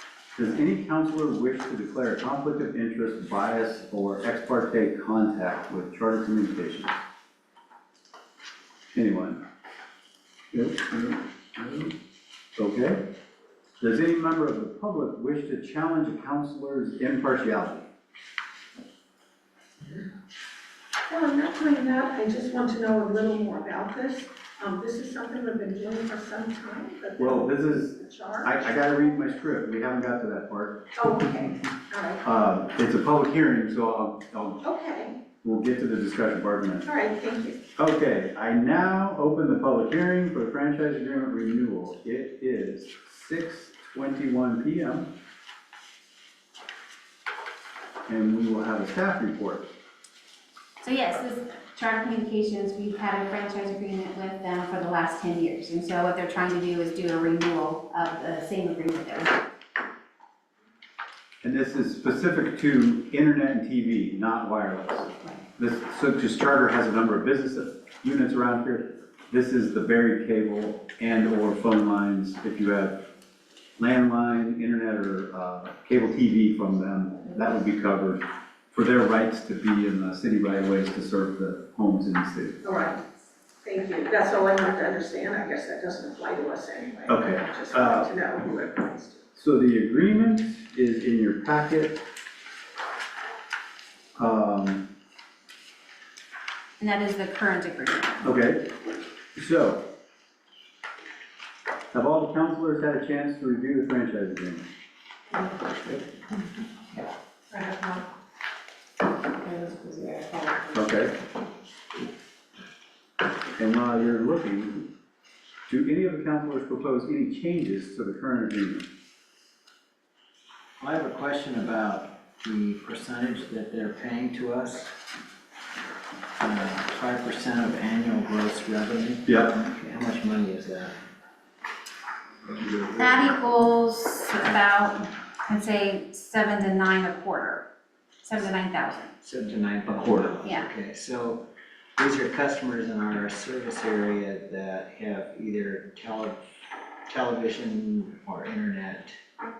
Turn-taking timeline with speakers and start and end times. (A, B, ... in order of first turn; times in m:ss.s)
0:00.4-0:07.0 A
0:09.0-0:09.4 A
0:10.5-0:11.9 A
0:12.6-0:13.0 A
0:13.8-0:17.9 A
0:21.1-0:28.8 B
0:27.2-0:30.8 A
0:31.0-0:32.2 B
0:32.2-0:34.6 A
0:34.6-0:35.2 B
0:35.4-0:36.9 A
0:36.8-0:37.6 B
0:37.8-0:45.1 A
0:48.1-0:49.7 A
0:50.8-0:59.4 C
1:01.4-1:13.0 A
1:13.8-1:22.6 A
1:22.6-1:23.0 B
1:23.6-1:29.2 B
1:27.1-1:28.1 A
1:29.4-1:32.0 A
1:34.2-1:34.9 A
1:36.8-1:38.2 C
1:38.2-1:38.7 A
1:39.4-1:39.9 A
1:41.9-1:44.7 A
1:47.5-1:48.0 B
1:49.2-1:50.8 C
1:50.7-1:51.2 A
1:53.6-1:54.9 A
1:55.7-1:58.9 A
2:00.8-2:05.0 D
2:06.4-2:11.0 D
2:09.3-2:09.5 A
2:12.5-2:13.1 D
2:13.0-2:17.6 C
2:18.2-2:19.1 C
2:19.2-2:21.4 D
2:19.9-2:20.3 A
2:22.0-2:26.4 D
2:27.1-2:29.2 D